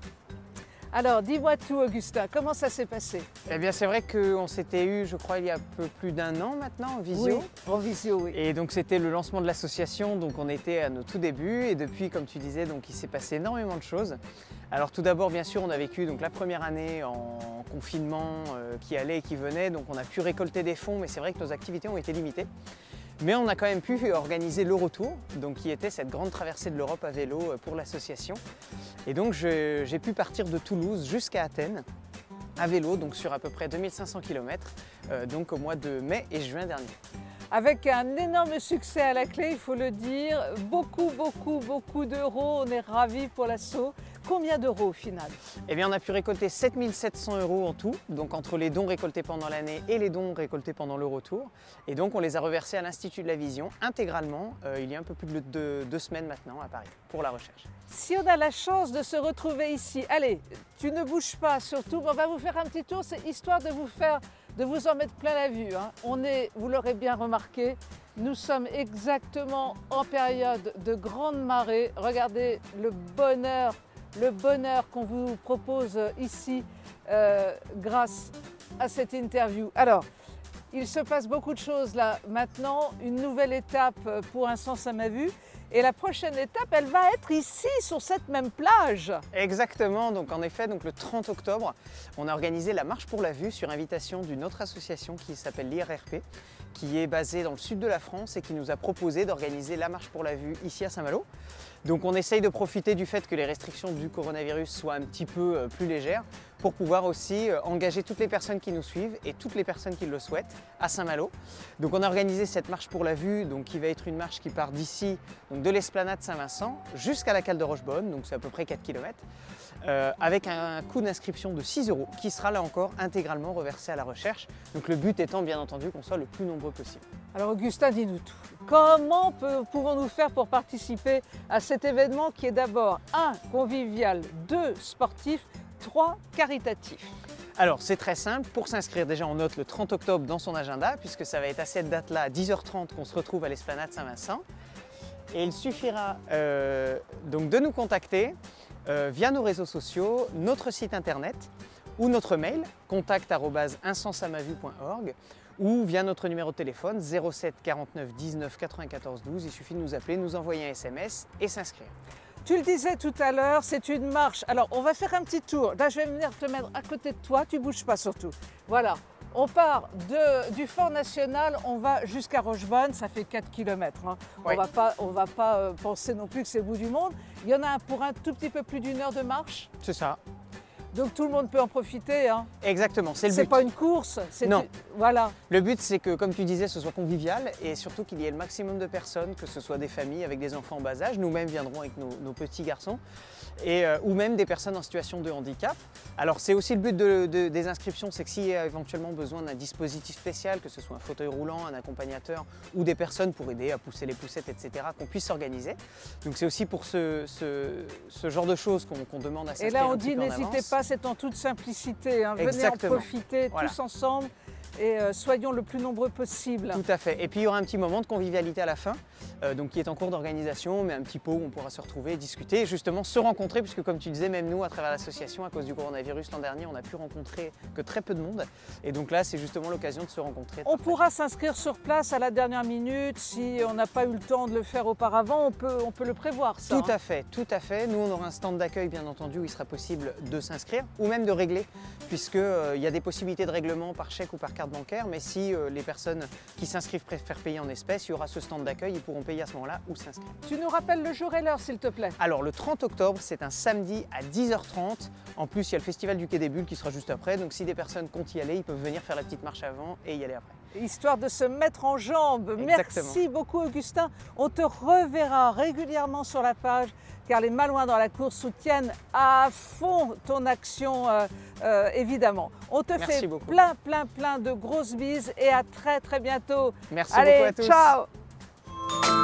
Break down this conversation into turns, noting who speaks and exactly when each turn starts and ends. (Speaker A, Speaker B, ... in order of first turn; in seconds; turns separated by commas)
Speaker A: 0.9-3.3, Speaker B: 3.5-7.5, Speaker A: 7.1-8.4, Speaker B: 8.3-14.2, Speaker B: 14.7-22.5, Speaker B: 23.2-28.4, Speaker B: 29.1-31.9, Speaker B: 32.6-37.0, Speaker A: 37.5-45.4, Speaker B: 45.7-57.7, Speaker A: 57.9-80.0, Speaker A: 80.7-89.2, Speaker B: 89.3-101.3, Speaker B: 101.8-119.2, Speaker B: 119.8-127.0, Speaker A: 127.3-137.1, Speaker B: 137.6-144.4, Speaker B: 145.3-161.9, Speaker A: 162.4-179.7, Speaker B: 179.8-180.2, Speaker A: 180.9-182.5, Speaker B: 182.6-183.6, Speaker A: 183.3-185.3, Speaker B: 185.5-193.0, Speaker B: 193.6-210.7, Speaker A: 209.6-216.8, Speaker B: 212.4-213.8, Speaker B: 216.7-231.0, Speaker A: 230.7-236.9, Speaker B: 236.7-250.3, Speaker A: 250.4-252.2, Speaker B: 252.2-260.6, Speaker A: 260.7-278.1, Speaker B: 262.6-263.2, Speaker B: 273.0-273.6, Speaker B: 276.9-278.0